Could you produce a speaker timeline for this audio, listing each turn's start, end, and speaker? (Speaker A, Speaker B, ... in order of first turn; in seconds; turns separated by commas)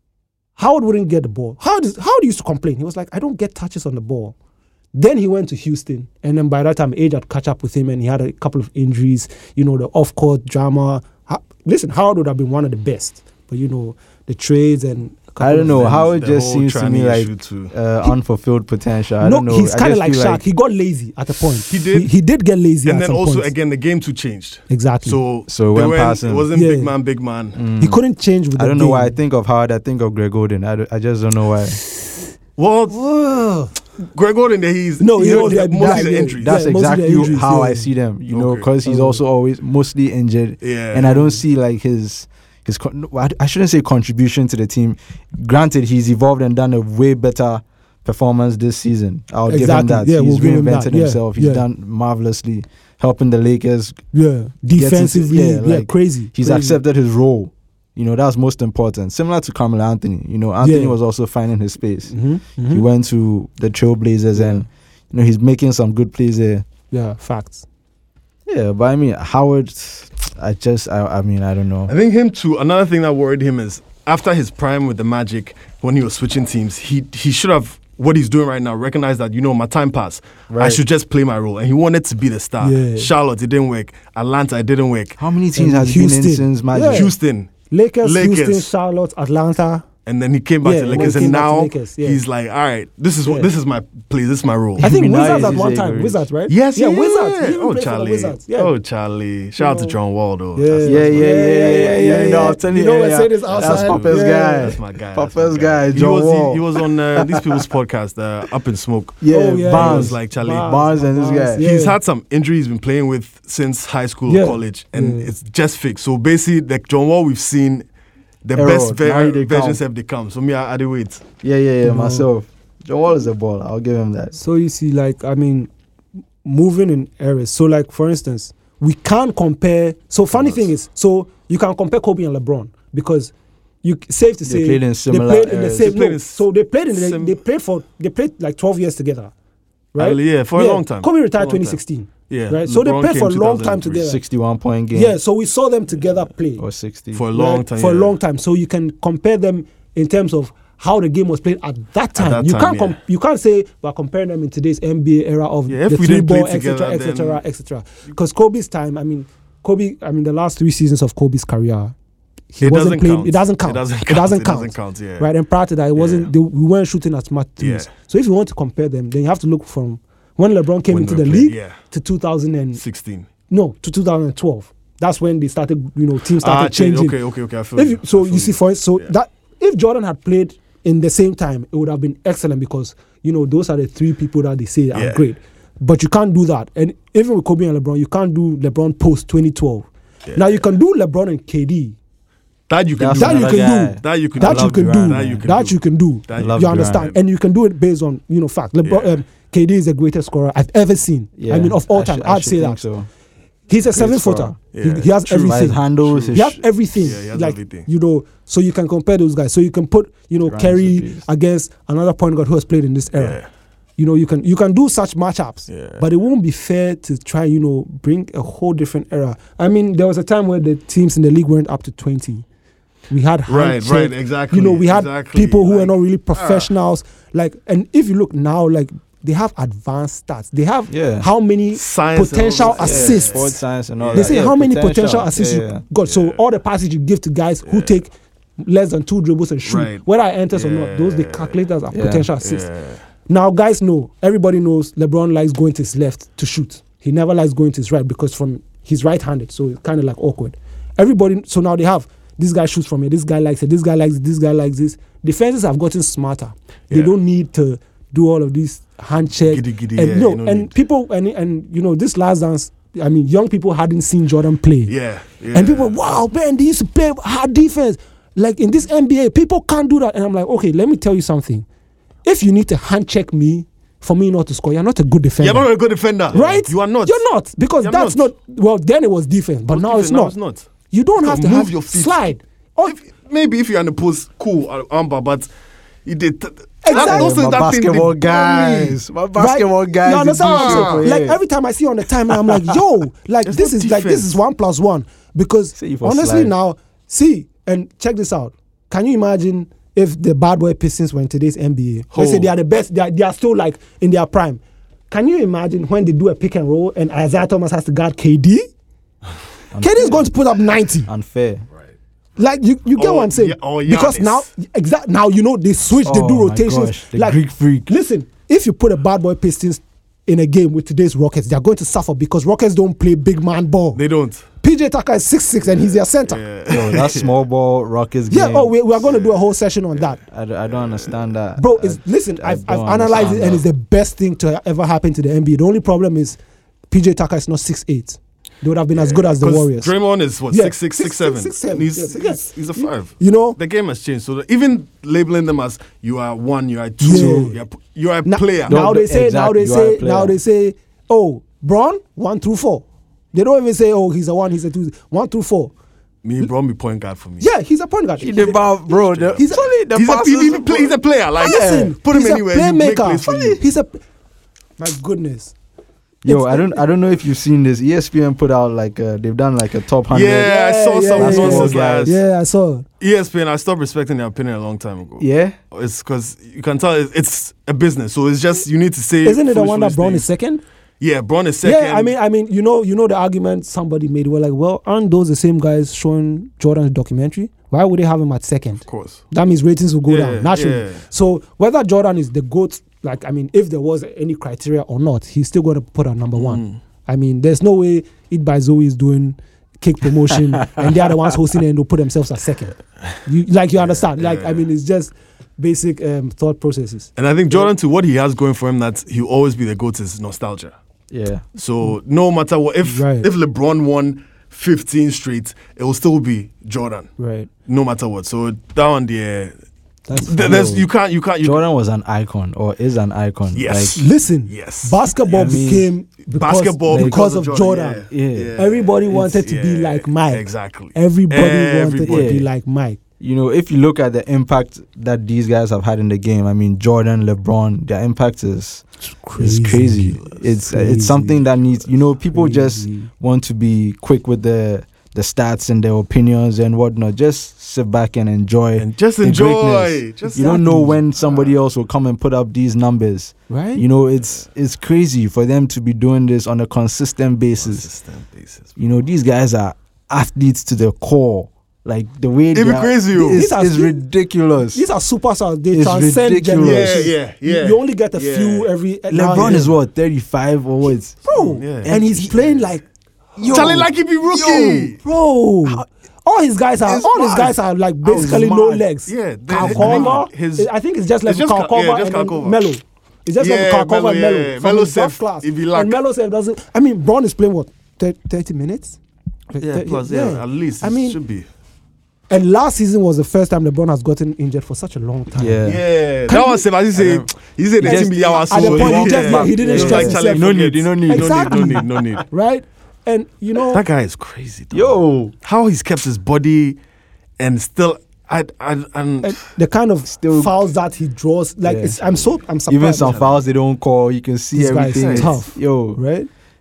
Speaker A: 0.6-4.3, Speaker A: 4.9-16.1, Speaker B: 15.4-20.4, Speaker C: 15.7-17.7, Speaker A: 19.2-23.5, Speaker C: 21.7-22.1, Speaker C: 22.9-27.6, Speaker A: 24.7-25.2, Speaker B: 25.5-26.5, Speaker A: 26.5-26.9, Speaker B: 27.6-28.0, Speaker A: 27.8-29.2, Speaker B: 28.6-31.8, Speaker C: 32.6-33.0, Speaker A: 32.9-33.7, Speaker C: 34.1-36.5, Speaker A: 35.0-37.9, Speaker B: 35.2-54.0, Speaker C: 38.3-38.7, Speaker A: 38.8-39.2, Speaker C: 40.6-41.3, Speaker A: 49.5-51.6, Speaker A: 54.1-56.8, Speaker B: 54.7-62.1, Speaker A: 60.6-61.0, Speaker A: 62.1-62.9, Speaker B: 62.7-66.6, Speaker A: 64.3-64.7, Speaker A: 66.9-67.7, Speaker B: 68.5-71.9, Speaker C: 71.9-85.2, Speaker B: 80.5-80.8, Speaker A: 82.6-83.1, Speaker B: 85.2-87.1, Speaker A: 85.6-87.1, Speaker C: 86.9-88.7, Speaker A: 87.7-89.8, Speaker C: 90.1-95.6, Speaker A: 90.6-92.2, Speaker A: 93.2-93.5, Speaker B: 94.8-96.2, Speaker A: 94.8-98.7, Speaker C: 96.5-102.6, Speaker A: 99.6-100.0, Speaker A: 100.6-104.8, Speaker B: 100.8-107.6, Speaker C: 103.5-110.9, Speaker B: 109.2-111.7, Speaker A: 109.3-112.0, Speaker C: 111.6-117.9, Speaker A: 114.3-115.3, Speaker C: 118.5-121.2, Speaker B: 118.5-119.8, Speaker B: 121.4-124.4, Speaker A: 121.8-122.3, Speaker A: 124.4-125.7, Speaker A: 126.4-133.3, Speaker C: 130.3-130.7, Speaker A: 133.8-139.3, Speaker B: 134.4-135.9, Speaker C: 135.7-137.4, Speaker A: 139.9-144.2, Speaker C: 140.0-141.8, Speaker C: 142.3-144.1, Speaker B: 144.0-145.2, Speaker A: 144.9-146.6, Speaker B: 146.6-147.2, Speaker C: 147.1-148.2, Speaker A: 147.3-161.9, Speaker C: 152.2-153.0, Speaker C: 155.7-157.4, Speaker A: 162.5-172.8, Speaker C: 162.6-165.3, Speaker C: 165.9-166.3, Speaker C: 167.6-167.9, Speaker C: 170.9-171.8, Speaker C: 172.8-173.3, Speaker A: 173.5-177.2, Speaker C: 176.4-179.1, Speaker A: 177.8-192.0, Speaker C: 184.9-185.2, Speaker C: 192.7-197.2, Speaker B: 193.0-195.4, Speaker A: 193.2-202.8, Speaker B: 196.3-197.1, Speaker C: 198.8-199.2, Speaker B: 201.4-203.1, Speaker A: 203.7-205.8, Speaker B: 203.9-204.6, Speaker C: 204.7-206.4, Speaker B: 205.4-206.6, Speaker A: 206.3-213.4, Speaker C: 207.0-207.9, Speaker B: 210.5-211.3, Speaker C: 213.2-213.5, Speaker A: 214.0-222.4, Speaker C: 215.7-216.1, Speaker A: 223.1-233.6, Speaker C: 223.5-226.7, Speaker B: 230.9-231.3, Speaker C: 231.7-234.4, Speaker B: 232.6-235.8, Speaker A: 234.1-242.7, Speaker C: 236.1-236.4, Speaker C: 237.7-237.9, Speaker C: 239.6-241.6, Speaker B: 241.9-242.3, Speaker C: 242.4-243.0, Speaker A: 243.3-264.9, Speaker C: 259.4-260.7, Speaker C: 264.9-266.1, Speaker A: 265.5-271.7, Speaker A: 272.2-275.7, Speaker C: 275.4-277.2, Speaker A: 276.3-280.3, Speaker C: 277.8-278.3, Speaker C: 279.7-280.7, Speaker A: 280.9-283.0, Speaker C: 281.2-282.2, Speaker C: 282.9-285.5, Speaker C: 286.1-289.0, Speaker A: 286.8-287.6, Speaker B: 286.9-291.4, Speaker A: 289.4-308.7, Speaker C: 290.4-291.1, Speaker B: 292.3-292.8, Speaker C: 293.4-294.4, Speaker B: 295.8-296.5, Speaker C: 302.1-302.5, Speaker B: 309.7-310.3, Speaker A: 309.8-311.1, Speaker B: 311.1-311.6, Speaker A: 312.4-324.0, Speaker C: 313.0-314.5, Speaker B: 316.0-317.9, Speaker C: 324.0-324.4, Speaker A: 324.6-326.4, Speaker C: 325.6-327.3, Speaker B: 326.7-328.8, Speaker A: 328.3-330.2, Speaker C: 329.0-329.4, Speaker B: 330.3-333.6, Speaker C: 330.8-331.1, Speaker A: 331.6-336.4, Speaker A: 336.9-339.9, Speaker C: 338.9-348.8, Speaker A: 340.5-343.6, Speaker A: 347.0-347.6, Speaker B: 347.1-347.5, Speaker A: 348.3-355.7, Speaker B: 348.7-350.4, Speaker C: 356.2-357.5, Speaker A: 357.4-358.7, Speaker B: 358.2-361.9, Speaker C: 358.9-363.6, Speaker A: 359.4-359.7, Speaker A: 361.4-364.0, Speaker B: 363.2-363.6, Speaker A: 364.8-365.5, Speaker A: 366.2-366.8, Speaker B: 366.2-370.6, Speaker C: 370.1-372.1, Speaker A: 370.4-372.9, Speaker B: 371.1-372.2, Speaker C: 373.0-380.3, Speaker B: 375.2-375.6, Speaker A: 379.2-380.6, Speaker C: 381.0-382.1, Speaker A: 381.6-407.7, Speaker C: 388.9-389.2, Speaker C: 390.1-391.0, Speaker C: 396.4-396.8, Speaker C: 403.8-404.6, Speaker C: 407.2-410.7, Speaker B: 411.1-411.4, Speaker C: 411.6-417.1, Speaker A: 412.9-413.3, Speaker A: 417.2-417.5, Speaker C: 417.7-419.5, Speaker A: 420.1-420.8, Speaker C: 420.2-421.6, Speaker B: 420.3-420.9, Speaker B: 421.4-424.0, Speaker C: 423.5-425.6, Speaker A: 423.9-433.0, Speaker B: 425.3-425.9, Speaker C: 426.4-432.4, Speaker B: 426.9-427.2, Speaker B: 428.1-428.5, Speaker B: 429.1-429.4, Speaker B: 432.0-432.5, Speaker B: 433.2-438.8, Speaker A: 439.2-441.4, Speaker B: 439.4-457.9, Speaker A: 442.3-443.1, Speaker C: 448.8-451.5, Speaker A: 450.4-451.0, Speaker A: 453.5-453.8, Speaker C: 457.6-458.7, Speaker B: 458.8-464.8, Speaker C: 462.5-463.4, Speaker A: 463.3-464.0, Speaker A: 464.7-469.7, Speaker B: 465.7-467.1, Speaker C: 466.6-468.7, Speaker B: 469.1-472.4, Speaker A: 471.3-472.8, Speaker C: 471.3-472.5, Speaker B: 473.4-474.9, Speaker A: 473.4-473.9, Speaker C: 473.5-475.0, Speaker A: 475.0-489.0, Speaker B: 476.9-478.8, Speaker C: 479.1-480.7, Speaker B: 479.5-480.2, Speaker C: 481.2-482.7, Speaker C: 483.4-486.0, Speaker A: 489.5-491.2, Speaker C: 489.6-491.5, Speaker A: 492.3-495.8, Speaker B: 495.4-495.8, Speaker C: 495.6-502.2, Speaker A: 496.3-496.6, Speaker B: 496.9-497.3, Speaker A: 497.8-500.5, Speaker B: 497.8-501.9, Speaker A: 501.1-503.8, Speaker C: 503.6-506.8, Speaker B: 504.7-505.3, Speaker C: 507.4-509.4, Speaker A: 509.2-513.2, Speaker B: 510.1-510.5, Speaker B: 511.6-512.0, Speaker B: 512.7-516.0, Speaker C: 513.0-513.4, Speaker A: 514.5-516.3, Speaker C: 515.0-515.4